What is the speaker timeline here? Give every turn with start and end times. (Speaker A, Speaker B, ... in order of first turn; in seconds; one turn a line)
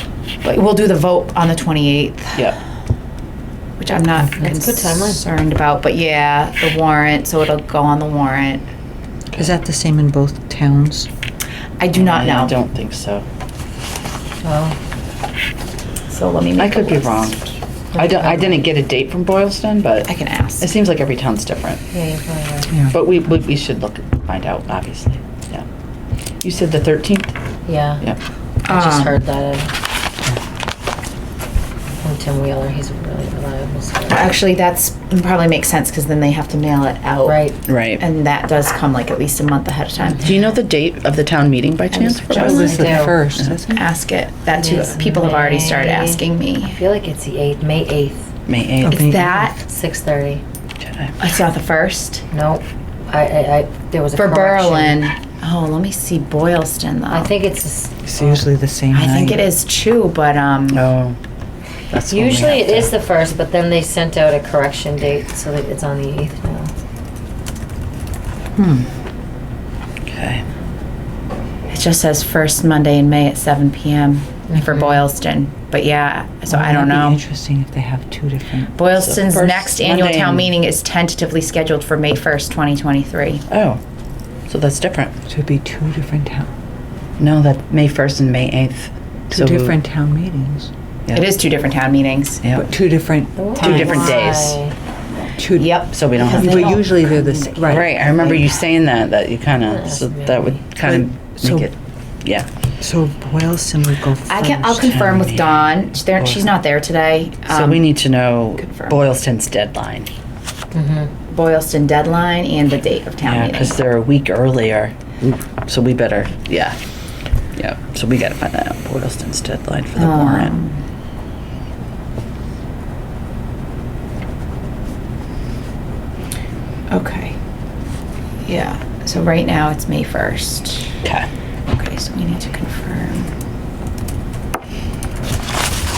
Speaker A: 0.4-2.5
Speaker A: 3.8-8.6
Speaker B: 4.4-5.2
Speaker C: 9.4-11.1
Speaker A: 11.8-12.6
Speaker D: 11.9-13.3
Speaker B: 14.4-14.8
Speaker A: 16.1-17.5
Speaker D: 16.6-17.4
Speaker B: 17.9-18.7
Speaker D: 17.9-21.8
Speaker A: 20.1-20.7
Speaker B: 21.9-22.8
Speaker D: 22.9-25.6
Speaker D: 26.4-27.4
Speaker B: 27.7-28.0
Speaker B: 28.7-29.7
Speaker A: 28.7-29.2
Speaker B: 32.0-34.3
Speaker A: 34.1-37.4
Speaker B: 37.2-37.6
Speaker D: 37.7-38.0
Speaker A: 38.0-40.3
Speaker D: 40.2-42.6
Speaker A: 41.9-42.9
Speaker C: 42.3-43.8
Speaker B: 42.6-43.2
Speaker A: 43.7-46.8
Speaker B: 44.5-48.3
Speaker D: 48.5-49.1
Speaker C: 48.8-49.5
Speaker A: 48.9-49.6
Speaker B: 49.5-50.4
Speaker D: 50.8-51.1
Speaker A: 51.2-52.2
Speaker B: 52.3-55.0
Speaker A: 54.1-57.3
Speaker B: 57.1-58.1
Speaker C: 58.1-59.5
Speaker A: 58.9-60.8
Speaker D: 60.7-61.2
Speaker D: 61.9-62.9
Speaker B: 62.1-66.7
Speaker C: 68.6-68.9
Speaker D: 70.1-70.4
Speaker A: 71.7-77.2
Speaker B: 74.5-74.9
Speaker C: 76.5-78.7
Speaker A: 78.8-83.4
Speaker D: 79.0-80.5
Speaker D: 83.5-83.8
Speaker D: 84.5-85.1
Speaker C: 85.3-86.5
Speaker D: 87.2-89.8
Speaker C: 89.3-90.7
Speaker A: 91.1-92.4
Speaker C: 92.5-93.6
Speaker B: 93.4-94.7
Speaker A: 93.6-94.2
Speaker D: 93.6-94.6
Speaker C: 95.4-97.9
Speaker A: 95.6-98.5
Speaker D: 95.9-96.9
Speaker D: 97.7-101.7
Speaker B: 99.7-100.6
Speaker C: 100.8-101.7
Speaker C: 102.8-105.0
Speaker A: 104.3-107.9
Speaker D: 104.9-106.5
Speaker D: 107.5-110.1
Speaker A: 108.6-109.0
Speaker B: 110.7-111.1
Speaker A: 111.3-113.8
Speaker D: 113.2-116.8
Speaker D: 117.6-120.6
Speaker A: 120.0-120.8
Speaker A: 126.9-127.4
Speaker A: 128.4-131.0
Speaker A: 131.7-133.3